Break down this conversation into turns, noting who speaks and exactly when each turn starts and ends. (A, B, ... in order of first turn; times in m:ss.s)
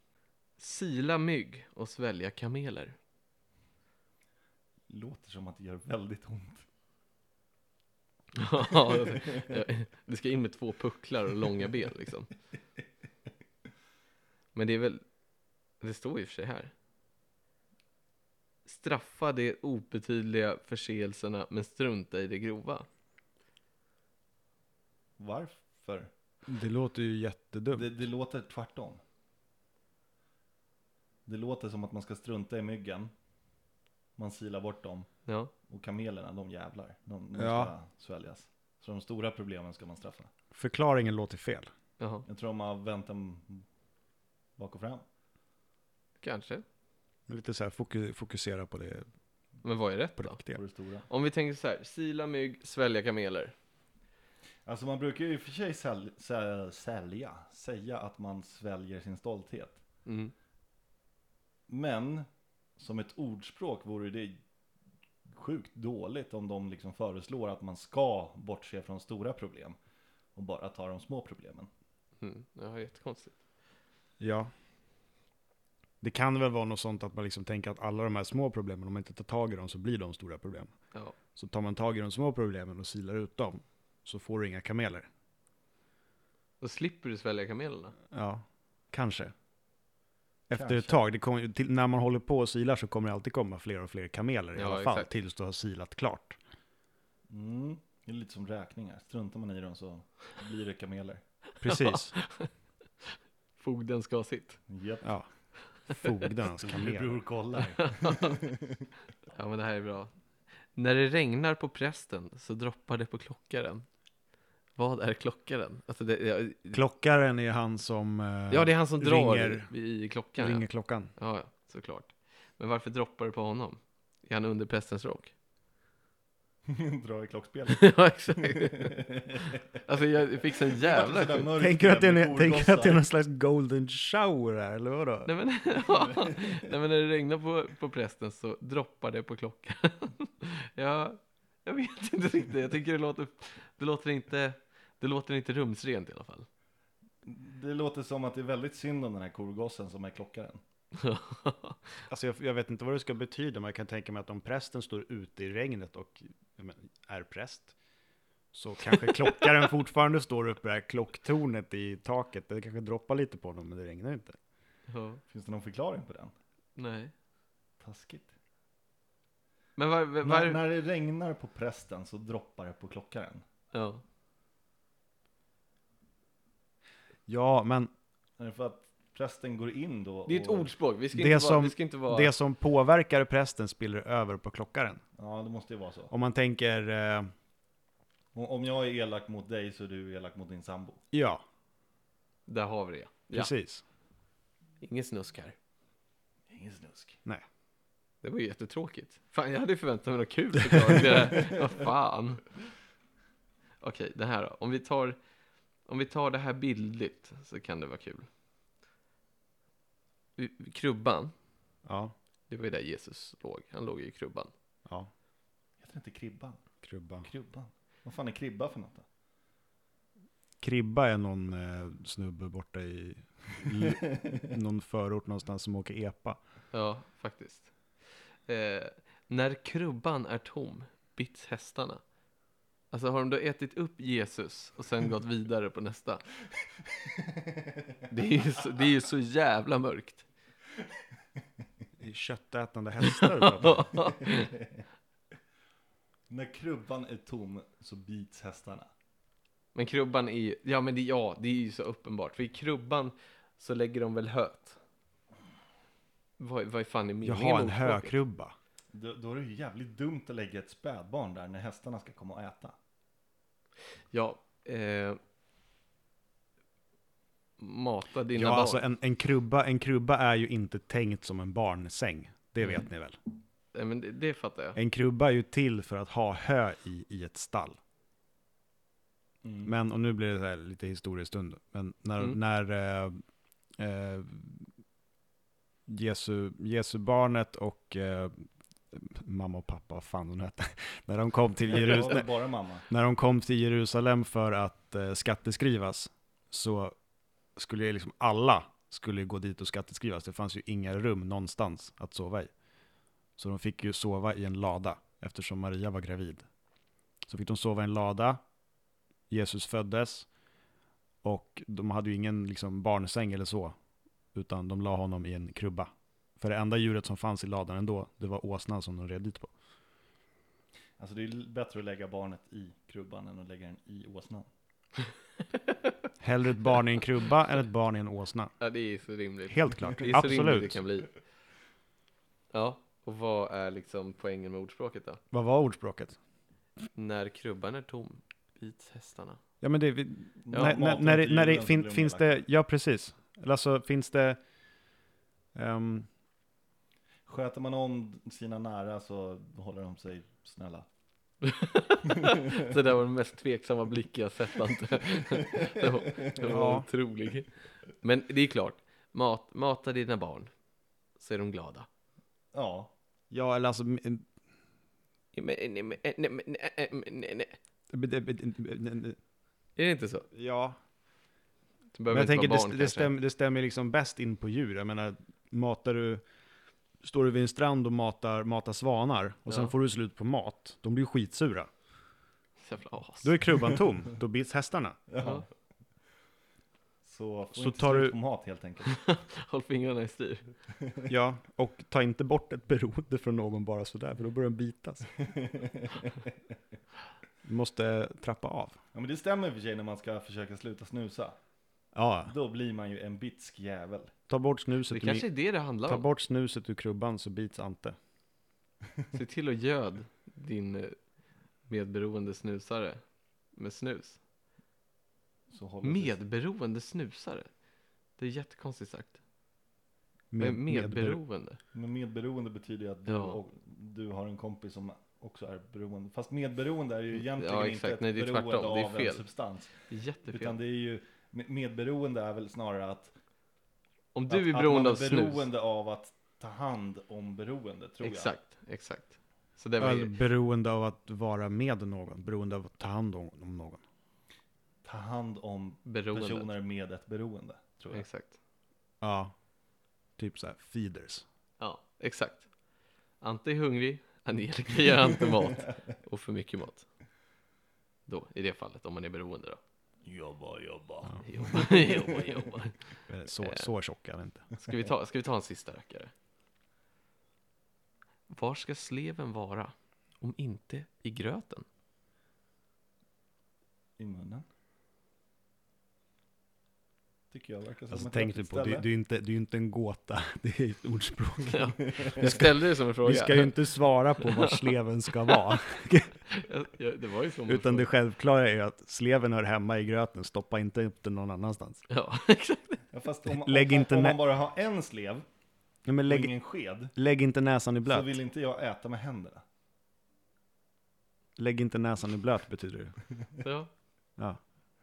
0:00.6-0:03.0 A
0:04.9-0:06.6 B
0:08.3-0:12.3 A
0:09.0-0:09.4 B
0:14.5-0:15.0 A
0:15.8-0:16.7 A
0:18.6-0:22.9 A
0:25.2-0:26.1 B
0:26.5-0:27.9 C
0:27.7-0:29.0 B
0:31.3-0:33.1 B
0:34.2-0:35.1 B
0:35.3-0:35.5 A
0:35.7-0:40.3 B
0:37.3-0:37.7 C
0:40.5-0:41.7 C
0:42.0-0:42.2 A
0:42.2-0:43.6 B
0:44.6-0:45.0 B
0:46.2-0:46.6 A
0:47.3-0:49.0 C
0:49.6-0:50.4 A
0:50.2-0:50.6 C
0:50.5-0:51.0 B
0:51.1-0:53.5 A
0:54.6-0:59.8 B
1:00.0-1:00.3 A
1:01.7-1:02.2 B
1:02.8-1:04.4 B
1:05.3-1:09.8 B
1:10.4-1:11.7 B
1:12.2-1:13.3 A
1:14.2-1:14.5 C
1:16.0-1:20.7 C
1:21.3-1:25.1 C
1:26.6-1:27.9 A
1:28.1-1:29.3 C
1:30.5-1:36.4 C
1:30.5-1:30.9 B
1:34.6-1:35.1 A
1:37.3-1:41.2 B
1:41.6-1:42.1 C
1:41.7-1:42.5 A
1:43.0-1:44.6 A
1:44.7-1:45.1 B
1:45.9-1:47.2 C
1:46.6-1:48.8 B
1:47.8-1:48.4 A
1:49.3-1:50.1 A
1:50.7-1:53.8 A
1:54.8-1:56.8 A
1:56.7-1:59.7 C
1:58.5-2:00.6 A
2:00.4-2:01.1 C
2:01.2-2:05.3 A
2:06.7-2:09.8 B
2:07.7-2:11.5 A
2:10.6-2:13.0 B
2:11.6-2:15.3 C
2:15.2-2:26.5 A
2:16.2-2:16.4 B
2:27.2-2:30.6 B
2:30.9-2:31.8 A
2:32.1-2:37.7 C
2:38.5-2:44.4 C
2:38.9-2:39.3 A
2:44.9-2:45.2 A
2:45.3-2:46.3 B
2:46.8-2:47.1 A
2:47.8-2:48.3 B
2:49.8-2:50.6 A
2:50.2-2:53.4 B
2:53.7-2:54.0 A
2:57.3-2:57.9 C
2:58.4-3:00.7 B
3:00.2-3:02.3 A
3:01.1-3:05.0 C
3:05.2-3:06.1 B
3:06.1-3:07.3 C
3:08.3-3:11.0 B
3:11.1-3:11.4 C
3:12.5-3:13.5 A
3:13.3-3:13.8 C
3:14.8-3:15.5 A
3:16.5-3:17.2 B
3:18.2-3:22.4 A
3:23.8-3:25.2 A
3:25.8-3:28.3 A
3:30.4-3:31.3 A
3:31.8-3:32.1 C
3:32.5-3:34.5 A
3:35.8-3:36.6 B
3:36.8-3:37.3 C
3:37.2-3:39.0 B
3:40.6-3:46.4 C
3:46.7-3:47.7 A
3:48.5-3:52.0 A
3:52.9-3:56.2 A
3:57.0-3:58.0 B
3:58.1-4:00.2 A
4:02.0-4:04.0 C
4:03.0-4:04.5 A
4:06.3-4:08.9 B
4:09.7-4:14.8 A
4:16.4-4:18.2 A
4:17.2-4:18.5 C
4:18.9-4:22.7 B
4:24.1-4:25.2 A
4:27.6-4:28.9 A
4:28.3-4:33.2 C
4:33.7-4:34.8 A
4:34.7-4:37.8 C
4:39.4-4:39.7 B
4:39.6-4:43.2 C
4:43.8-4:44.7 C
4:45.9-4:52.3 C
4:51.7-4:52.8 B
4:52.9-4:56.9 C
4:57.6-5:02.5 C
5:03.4-5:06.4 C
5:07.2-5:08.4 C
5:09.3-5:10.3 C
5:11.2-5:13.7 C
5:14.3-5:19.5 C
5:21.0-5:24.5 B
5:25.5-5:25.9 A
5:26.2-5:28.5 C
5:28.6-5:31.1 A
5:29.5-5:30.8 C
5:32.5-5:35.2 A
5:35.3-5:36.2 C
5:36.9-5:39.4 A
5:39.6-5:44.4 C
5:40.4-5:42.3 B
5:45.5-5:46.1 C
5:47.3-5:50.8 B
5:51.4-5:57.5 A
5:56.4-5:56.9 C
5:58.0-6:00.5 A
6:01.2-6:01.9 A
6:02.5-6:02.9 B
6:03.3-6:04.2 C
6:05.3-6:07.6 A
6:07.9-6:09.2 C
6:09.8-6:10.3 A
6:10.3-6:10.8 C
6:11.9-6:13.1 A
6:12.1-6:16.2 C
6:17.0-6:21.7 C
6:19.5-6:19.7 A
6:22.6-6:23.3 A
6:23.2-6:25.0 C
6:25.1-6:25.4 B
6:25.2-6:25.4 A
6:27.0-6:29.0 B
6:27.5-6:28.1 C
6:28.8-6:30.5 A
6:31.1-6:35.1 C
6:35.3-6:36.1 B
6:37.4-6:38.8 C
6:38.9-6:41.4 B
6:41.9-6:42.3 C
6:42.3-6:44.1 B
6:44.3-6:45.3 C
6:44.9-6:46.1 A
6:45.8-6:48.0 C
6:49.1-6:51.0 A
6:51.7-6:53.0 A
6:53.5-6:54.2 A
6:55.5-6:56.2 B
6:55.8-6:57.5 A
6:58.2-6:59.2 A
7:00.3-7:01.2 C
7:00.4-7:01.6 A
7:01.7-7:13.1 B
7:03.0-7:03.4 A
7:07.2-7:09.2 A
7:09.8-7:10.6 A
7:14.1-7:15.5 A
7:14.3-7:18.4 B
7:18.0-7:20.1 A
7:19.8-7:23.8 C
7:24.8-7:28.0 B
7:25.8-7:26.5 A
7:27.9-7:28.4 A
7:29.0-7:29.3 C
7:30.2-7:31.2 C
7:31.6-7:32.5 A
7:33.2-7:36.8 A
7:38.1-7:39.6 A
7:40.0-7:42.4 B
7:41.2-7:42.9 A
7:43.1-7:44.5 C
7:43.4-7:43.7 A
7:44.5-7:46.1 A
7:48.3-7:51.6 A
7:54.0-7:54.4 B
7:57.3-7:58.8 B
7:57.9-8:02.5 C
8:01.5-8:03.6 A
8:03.0-8:06.1 C
8:04.2-8:05.6 A
8:06.3-8:07.9 A
8:07.5-8:11.8 C
8:11.9-8:12.8 A
8:12.9-8:15.2 B
8:13.3-8:14.2 C
8:15.9-8:16.3 C
8:16.1-8:16.9 B
8:16.9-8:18.1 C
8:17.9-8:19.4 B
8:21.4-8:22.9 C
8:23.4-8:23.7 A